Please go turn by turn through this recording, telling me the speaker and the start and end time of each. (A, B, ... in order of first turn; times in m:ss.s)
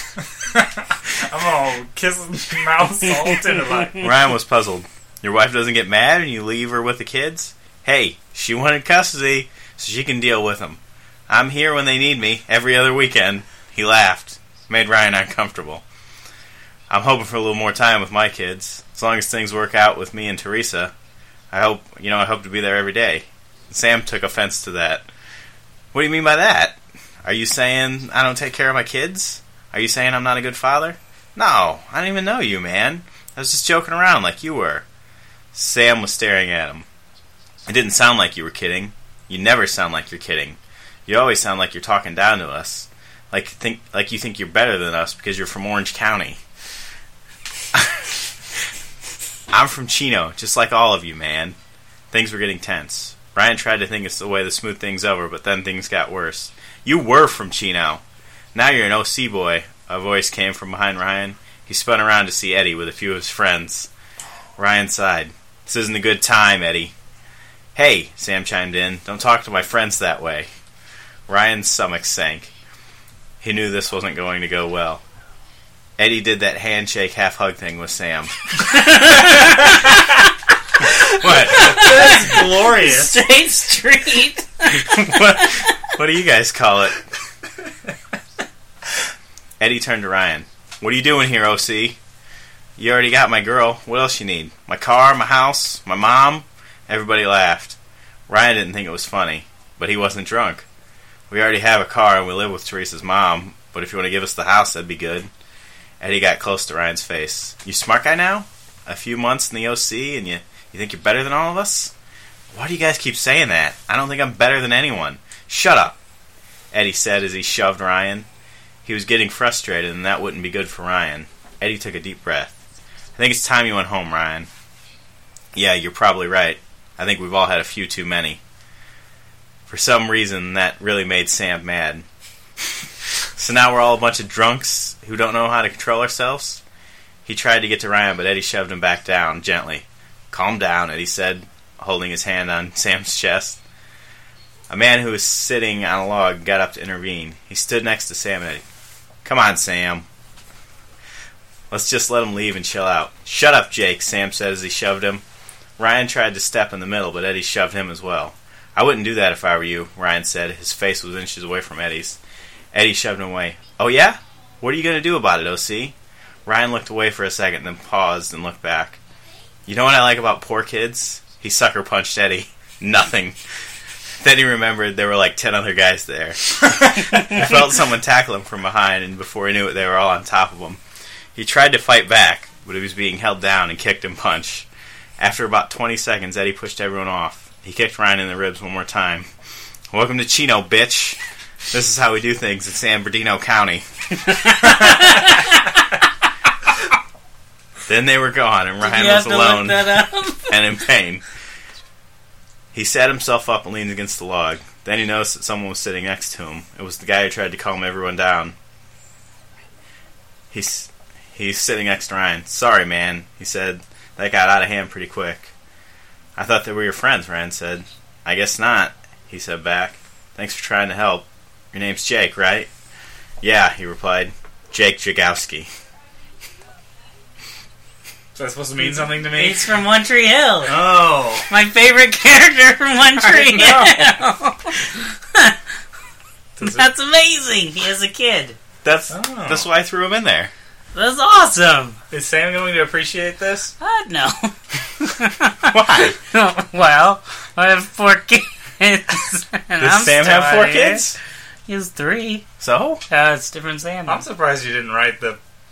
0:00.5-0:04.1 A
0:04.0-0:15.8 B
0:16.9-0:20.9 B
0:21.5-0:25.1 B
0:25.9-0:34.8 B
0:35.5-0:36.8 B
0:37.7-0:46.4 B
0:47.7-0:48.0 B
0:49.5-0:51.6 B
0:52.1-0:58.0 B
0:58.6-1:03.9 B
1:04.6-1:06.9 B
1:07.8-1:10.5 B
1:11.3-1:12.5 B
1:13.4-1:15.0 B
1:16.0-1:18.4 B
1:18.7-1:20.0 C
1:21.1-1:21.9 B
1:21.3-1:25.7 C
1:21.5-1:23.2 A
1:24.7-1:27.0 B
1:29.6-1:32.0 B
1:32.8-1:37.8 B
1:38.3-1:40.6 B
1:41.3-1:45.3 B
1:46.0-1:51.9 B
1:52.5-1:56.0 B
1:56.7-1:58.3 B
1:58.8-2:02.5 B
2:03.2-2:04.5 B
2:05.5-2:08.4 B
2:09.7-2:12.0 B
2:13.4-2:16.6 B
2:17.2-2:23.6 B
2:24.7-2:28.6 B
2:29.2-2:30.1 B
2:31.7-2:35.2 B
2:35.8-2:42.2 B
2:42.7-2:45.9 B
2:46.5-2:49.0 B
2:49.7-2:53.4 B
2:54.2-3:00.8 B
3:01.4-3:04.7 B
3:05.2-3:09.3 B
3:09.9-3:11.2 B
3:11.7-3:13.8 B
3:14.3-3:15.6 C
3:17.9-3:21.2 B
3:18.8-3:20.6 C
3:22.7-3:28.6 B
3:30.5-3:35.5 B
3:36.4-3:42.7 B
3:43.4-3:45.7 B
3:48.4-3:49.8 A
3:48.8-3:50.8 C
3:50.7-3:51.4 A
3:51.5-3:55.6 C
3:53.2-3:54.1 A
3:56.6-3:56.9 A
3:56.6-3:58.6 C
3:58.8-4:00.5 B
3:59.1-3:59.7 A
4:00.9-4:02.0 C
4:02.1-4:03.7 A
4:03.8-4:11.0 C
4:05.7-4:06.2 B
4:09.8-4:11.2 B
4:11.7-4:12.4 C
4:12.6-4:13.0 B
4:13.1-4:14.2 C
4:14.1-4:15.4 A